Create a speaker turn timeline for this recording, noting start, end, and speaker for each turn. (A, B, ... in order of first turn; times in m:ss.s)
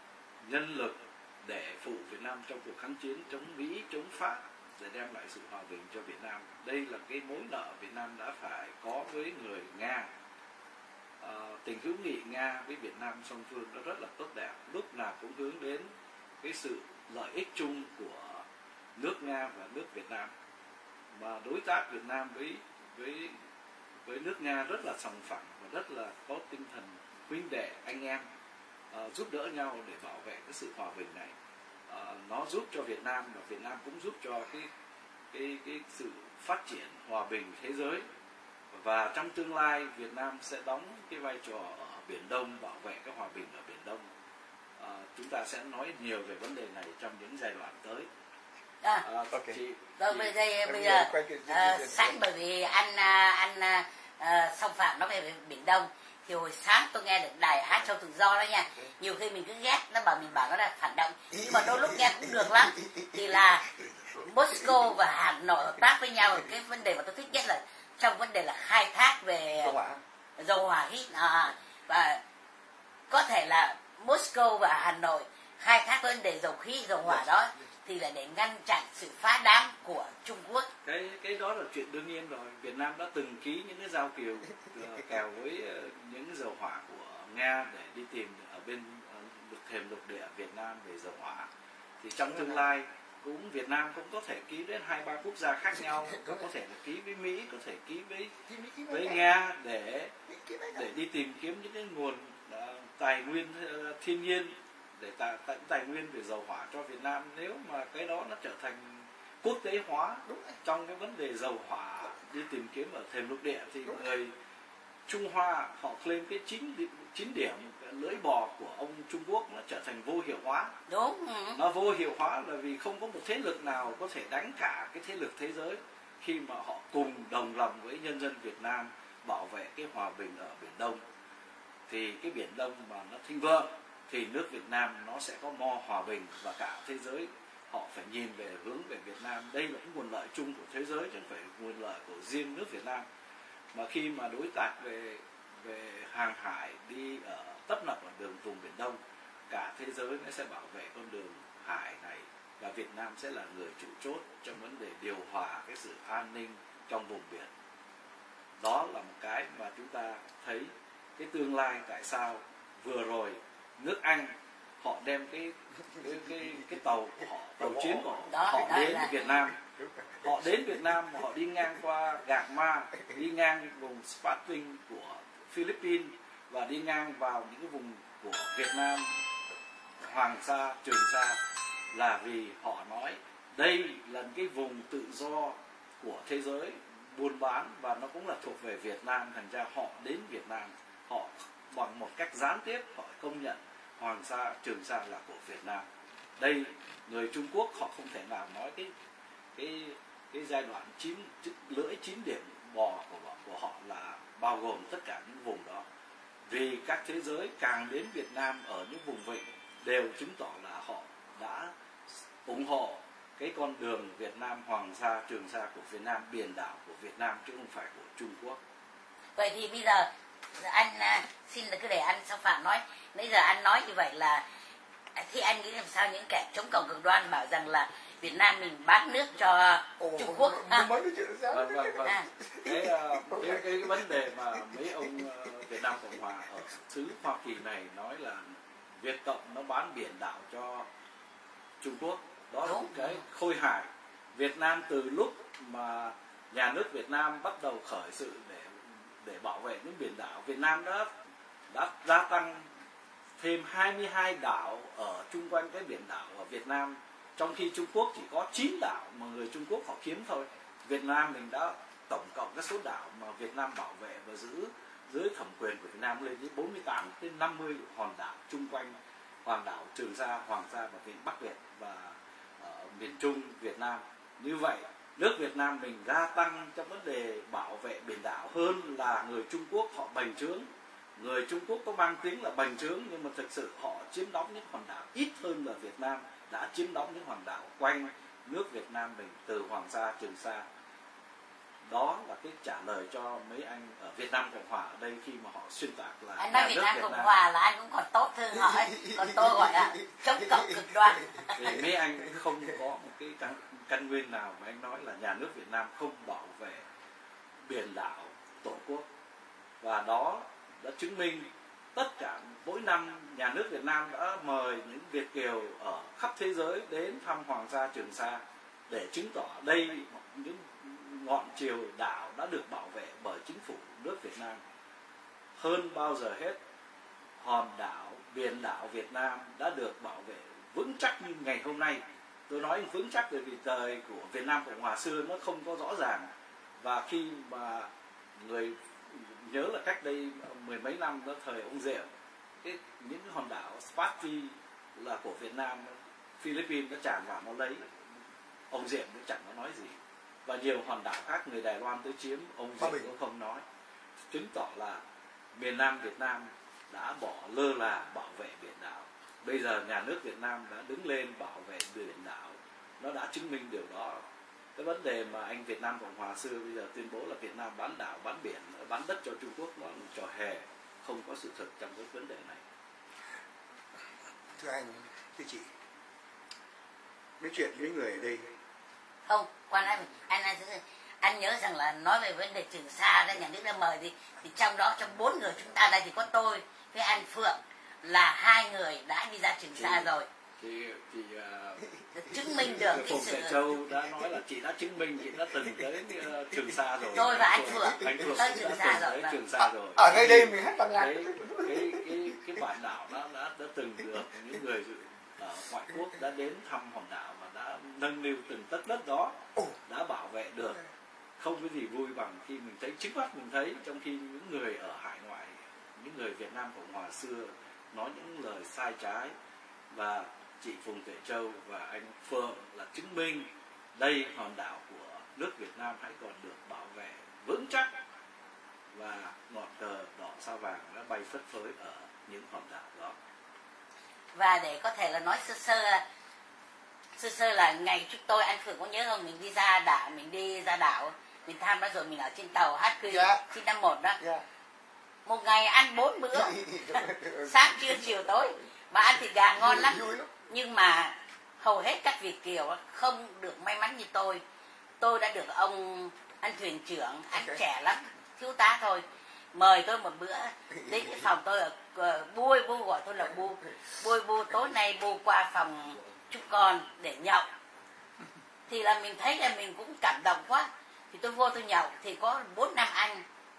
0:00.4-0:10.1 A
0:11.2-0:15.9 A
0:16.4-0:18.4 A
0:19.0-0:20.3 A
0:21.1-0:23.4 A
0:24.0-0:28.3 A
0:28.9-0:31.3 A
0:31.9-0:34.7 A
0:35.3-0:38.0 A
0:38.7-0:44.0 A
0:44.8-0:48.1 A
0:49.0-0:50.3 A
0:49.3-0:49.6 B
0:50.0-1:09.8 C
0:50.6-0:52.2 B
1:01.3-1:03.5 B
1:04.5-1:04.9 B
1:09.5-1:10.0 B
1:10.4-1:12.2 C
1:13.1-1:20.7 C
1:20.8-1:31.5 A
1:32.0-1:38.3 A
1:32.3-1:32.6 B
1:38.5-1:39.3 B
1:38.9-1:40.1 A
1:40.3-1:40.8 B
1:40.7-1:54.3 A
1:50.3-1:50.6 B
1:55.1-2:00.7 A
2:00.9-2:01.6 C
2:01.5-2:11.0 A
2:11.9-2:23.0 A
2:23.7-2:29.0 A
2:29.5-2:37.5 A
2:38.6-2:49.6 A
2:47.6-2:48.9 B
2:48.3-2:49.2 C
2:49.8-2:50.5 B
2:50.2-2:59.2 A
3:00.0-3:01.4 A
3:01.9-3:15.8 A
3:16.4-3:18.9 A
3:19.5-3:25.8 A
3:26.5-3:38.6 A
3:39.4-3:44.4 C
3:45.1-3:50.9 C
3:50.0-3:54.2 B
3:51.5-4:00.9 A
4:01.8-4:11.1 A
4:02.6-4:03.2 C
4:11.7-4:12.7 A
4:13.4-4:50.6 A
4:51.8-4:57.3 A
4:56.4-5:01.8 C
4:58.5-5:01.5 B
5:01.6-5:06.8 A
5:07.6-5:09.0 A
5:09.8-5:24.6 A
5:25.6-5:26.6 A
5:27.4-5:36.3 A
5:36.8-5:42.1 A
5:42.6-5:47.9 A
5:48.7-5:53.6 A
5:52.8-5:53.1 B
5:54.3-5:55.0 A
5:55.5-6:04.2 A
6:04.8-6:12.6 A
6:14.6-6:15.7 B
6:17.4-6:18.5 B
6:19.2-6:30.3 C
6:29.8-6:49.4 A
6:32.2-6:33.6 C
6:37.0-6:38.9 B
6:37.2-6:39.4 C
6:39.6-6:42.2 B
6:49.9-6:50.8 A
6:51.4-6:59.3 A
6:59.9-7:08.0 A
7:08.9-7:13.2 A
7:14.3-7:16.0 C
7:17.2-7:24.2 C
7:23.1-7:23.5 B
7:25.2-7:34.4 C
7:26.3-7:28.2 B
7:29.6-7:30.3 B
7:35.0-7:47.5 C
7:37.4-7:37.6 B
7:40.8-7:41.2 B
7:48.7-7:53.2 C